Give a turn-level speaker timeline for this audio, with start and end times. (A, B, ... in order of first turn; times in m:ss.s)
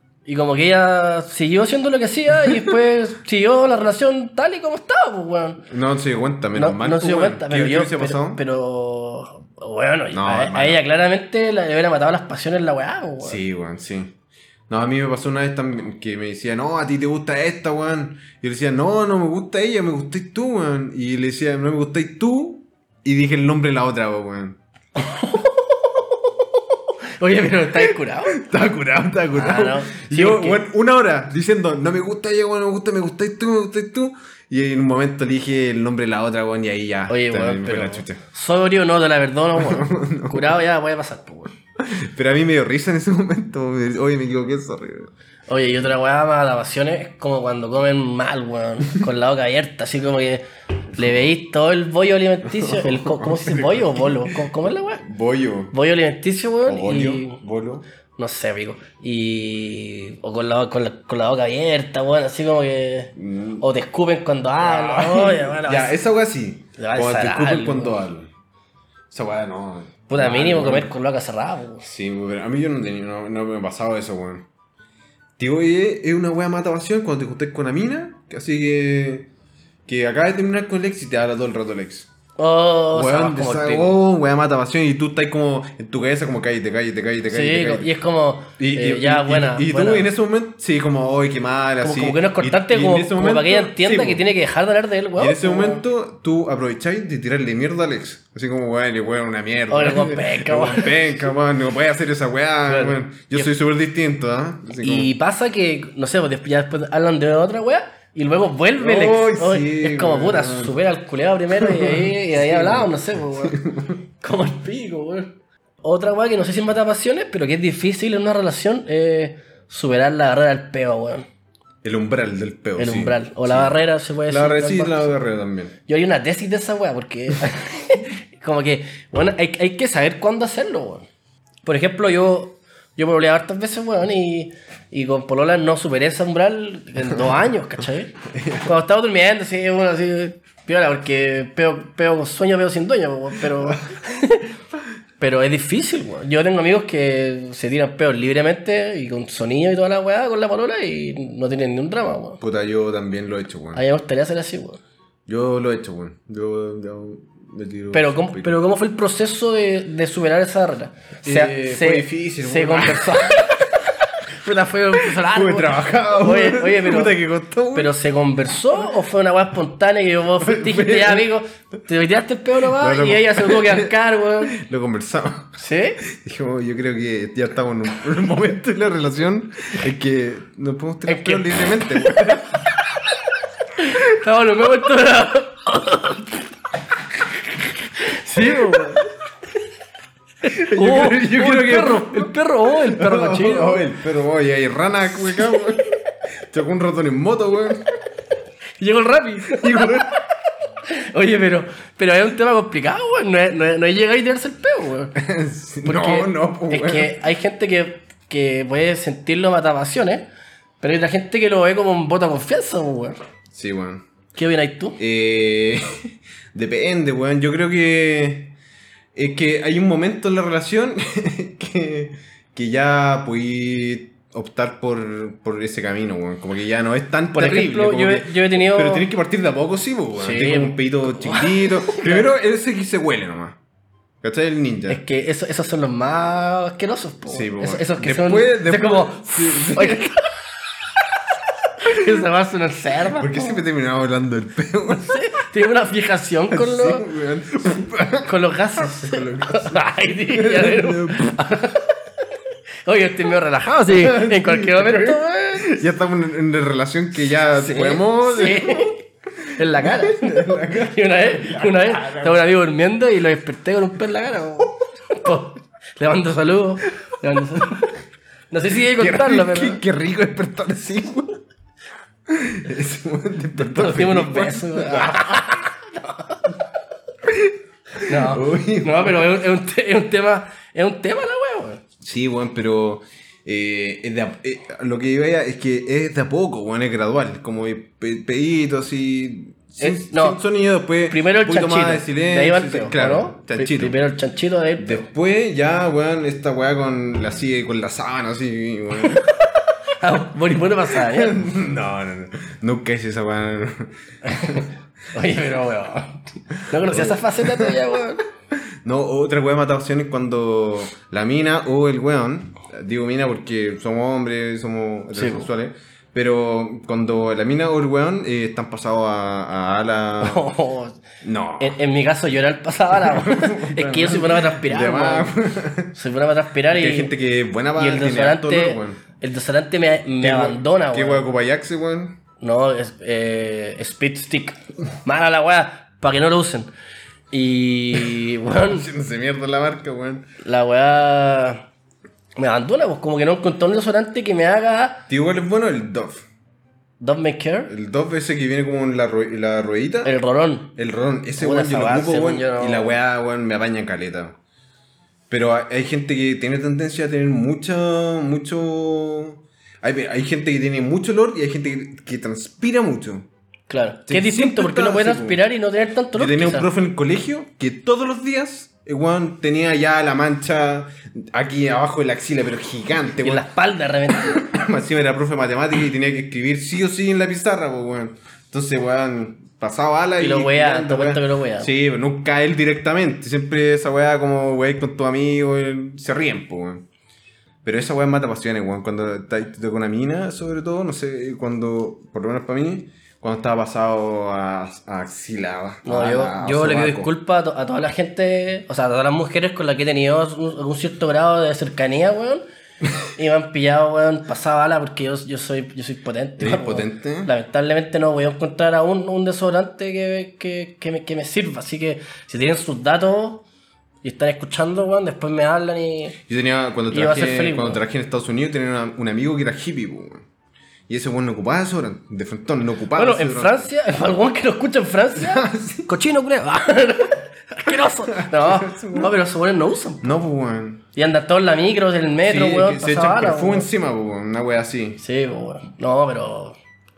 0:00.2-0:05.6 A
0:05.7-0:08.4 B
0:06.5-0:13.4 A
0:10.1-0:10.8 B
0:13.2-0:14.1 B
0:14.7-0:24.6 B
0:25.0-0:28.4 A
0:27.7-0:38.2 B
0:29.3-0:30.6 A
0:37.1-0:41.5 A
0:39.6-0:40.6 B
0:41.8-0:45.1 B
0:45.5-0:55.0 A
0:51.0-0:51.3 B
0:52.4-0:54.5 B
0:55.0-0:55.7 B
0:55.7-0:57.4 A
0:56.6-0:57.8 B
0:58.2-1:05.9 A
1:03.2-1:03.6 B
1:04.6-1:08.3 B
1:06.8-1:08.0 A
1:09.1-1:10.9 B
1:10.1-1:11.9 A
1:11.8-1:14.4 B
1:15.4-1:19.3 B
1:19.9-1:22.1 B
1:22.4-1:24.0 A
1:22.9-1:27.9 B
1:27.3-1:30.1 A
1:28.6-1:34.2 B
1:31.8-1:35.8 A
1:35.2-1:45.1 B
1:39.7-1:41.2 A
1:42.7-1:43.5 A
1:44.8-1:53.6 A
1:48.8-1:50.8 B
1:51.5-1:54.0 B
1:54.2-2:01.3 A
2:01.8-2:05.7 B
2:02.8-2:05.1 A
2:05.9-2:11.1 A
2:11.6-2:24.5 A
2:18.3-2:18.7 B
2:25.2-2:32.4 A
2:32.4-2:33.8 B
2:33.7-2:34.8 A
2:35.3-2:38.6 B
2:37.9-2:47.2 A
2:41.2-2:43.6 B
2:45.0-2:47.9 B
2:47.7-2:54.6 A
2:50.4-2:51.3 B
2:52.6-2:53.9 B
2:54.4-3:02.6 B
2:55.6-2:56.0 A
3:01.0-3:02.1 A
3:03.8-3:06.4 A
3:07.8-3:09.1 A
3:08.4-3:09.0 B
3:10.4-3:13.9 A
3:10.4-3:15.9 B
3:16.5-3:17.9 B
3:18.8-3:20.1 A
3:19.5-3:20.1 B
3:20.9-3:25.2 A
3:25.2-3:27.2 B
3:25.8-3:30.3 A
3:30.8-3:33.2 A
3:33.5-3:34.0 B
3:34.3-3:35.0 A
3:35.0-3:38.5 B
3:39.1-3:53.6 B
3:47.3-3:49.1 A
3:50.2-3:52.3 A
3:54.2-3:55.0 B
3:54.9-4:00.3 A
3:57.3-4:00.2 B
4:01.8-4:03.6 A
4:03.1-4:05.2 B
4:04.9-4:07.0 A
4:06.5-4:11.4 B
4:07.7-4:12.0 A
4:12.8-4:15.8 A
4:13.9-4:18.9 B
4:17.3-4:19.0 A
4:19.6-4:28.0 A
4:19.6-4:22.4 B
4:28.5-4:29.8 A
4:28.9-4:31.4 B
4:32.3-4:35.5 B
4:33.5-4:36.4 A
4:37.2-4:39.4 B
4:38.0-4:41.8 A
4:42.0-4:54.0 B
4:49.8-4:50.4 A
4:51.1-4:55.0 A
4:54.8-4:59.3 B
4:59.0-5:01.5 A
5:00.9-5:04.7 B
5:04.2-5:08.2 A
5:06.7-5:07.9 B
5:08.8-5:20.4 B
5:15.1-5:15.5 A
5:20.2-5:21.0 A
5:21.2-5:21.8 B
5:21.6-5:25.3 A
5:22.9-5:25.9 B
5:25.9-5:27.1 A
5:26.7-5:29.0 B
5:27.8-5:31.3 A
5:30.2-5:32.2 B
5:32.4-5:36.7 A
5:37.3-5:38.9 A
5:38.7-5:40.3 B
5:40.4-5:41.7 A
5:42.4-5:45.0 A
5:45.1-5:46.2 B
5:47.0-5:47.7 A
5:47.7-5:50.1 B
5:50.0-5:50.7 A
5:50.8-5:54.4 B
5:51.4-5:53.0 A
5:55.3-6:03.3 B
6:03.7-6:06.7 A
6:04.1-6:05.4 B
6:06.1-6:13.5 B
6:13.2-6:14.5 A
6:14.2-6:26.8 B
6:20.2-6:21.7 A
6:27.6-6:37.1 B
6:35.8-6:42.4 A
6:43.1-6:53.4 A
6:46.4-6:47.3 B
6:54.0-6:56.2 A
6:56.3-7:00.2 B
6:56.9-6:57.8 A
7:00.9-7:03.7 B
7:02.9-7:10.2 A
7:05.2-7:05.9 B
7:08.1-7:09.1 B
7:10.0-7:10.8 B
7:10.9-7:13.7 A
7:12.2-7:15.0 B
7:15.0-7:16.6 A